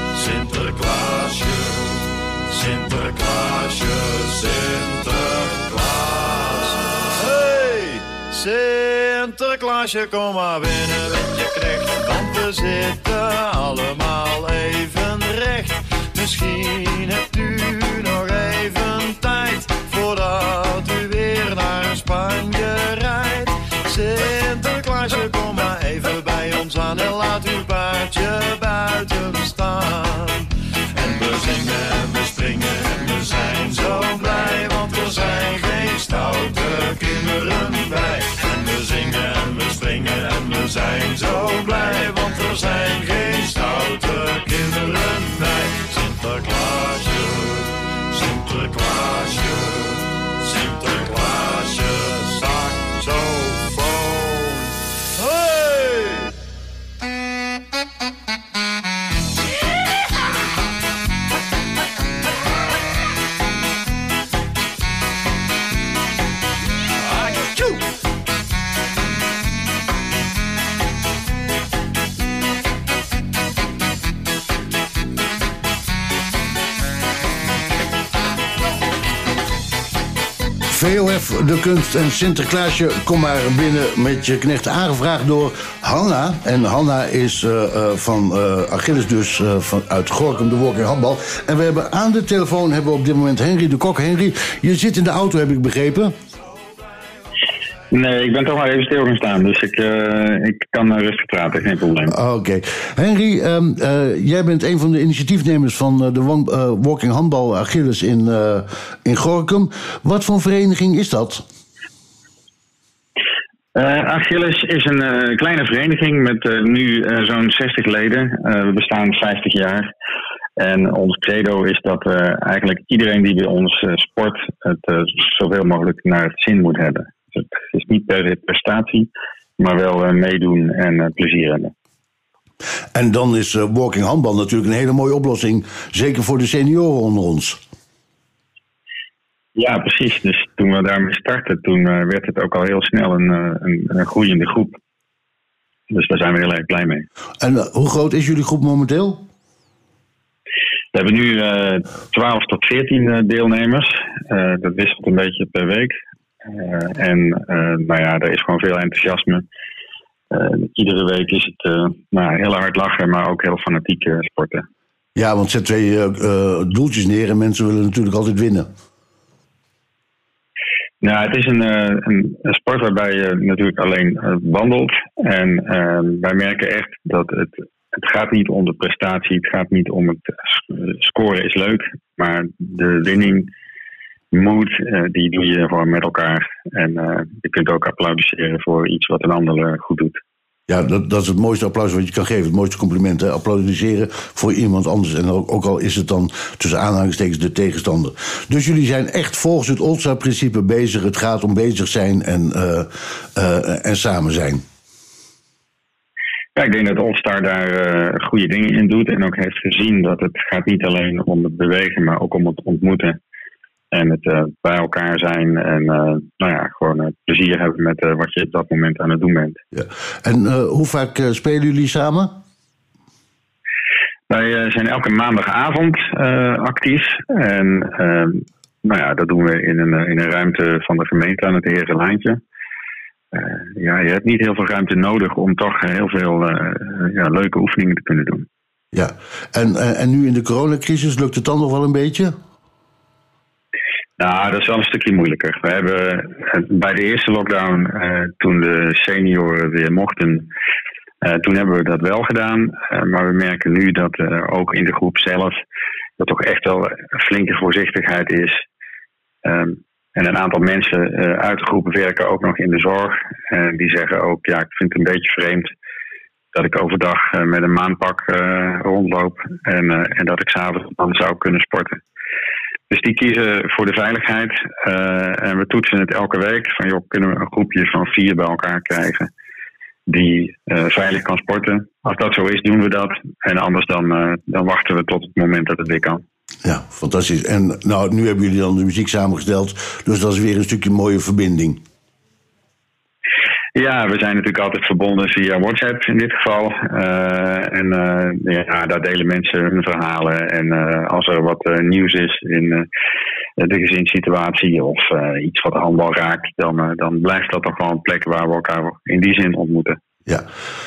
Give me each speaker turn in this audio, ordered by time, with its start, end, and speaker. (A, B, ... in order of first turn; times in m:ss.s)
0:00.1-0:56.2 A
1:20.7-1:36.2 B
1:37.9-1:42.1 C
1:42.1-1:51.4 B
1:53.8-1:59.9 C
2:00.6-2:11.7 C
2:12.9-2:17.6 B
2:19.6-2:24.8 C
2:25.9-2:27.0 C
2:27.4-2:29.3 B
2:30.9-2:39.4 C
2:40.3-2:44.6 C
2:45.2-2:48.7 B
2:51.0-3:03.5 C
3:04.3-3:10.2 C
3:10.7-3:24.6 B
3:26.6-3:33.2 C
3:33.9-3:39.6 C
3:39.7-3:42.4 B
3:44.3-3:52.4 C
3:53.3-3:58.5 C
3:58.9-4:02.4 B
4:04.2-4:10.5 C
4:11.2-4:15.6 C
4:16.2-4:18.6 C
4:19.4-4:25.7 C
4:26.5-4:32.0 C
4:32.9-4:39.3 C
4:40.1-4:46.2 C
4:46.6-4:51.8 B
4:53.8-5:02.9 C
5:03.6-5:10.0 C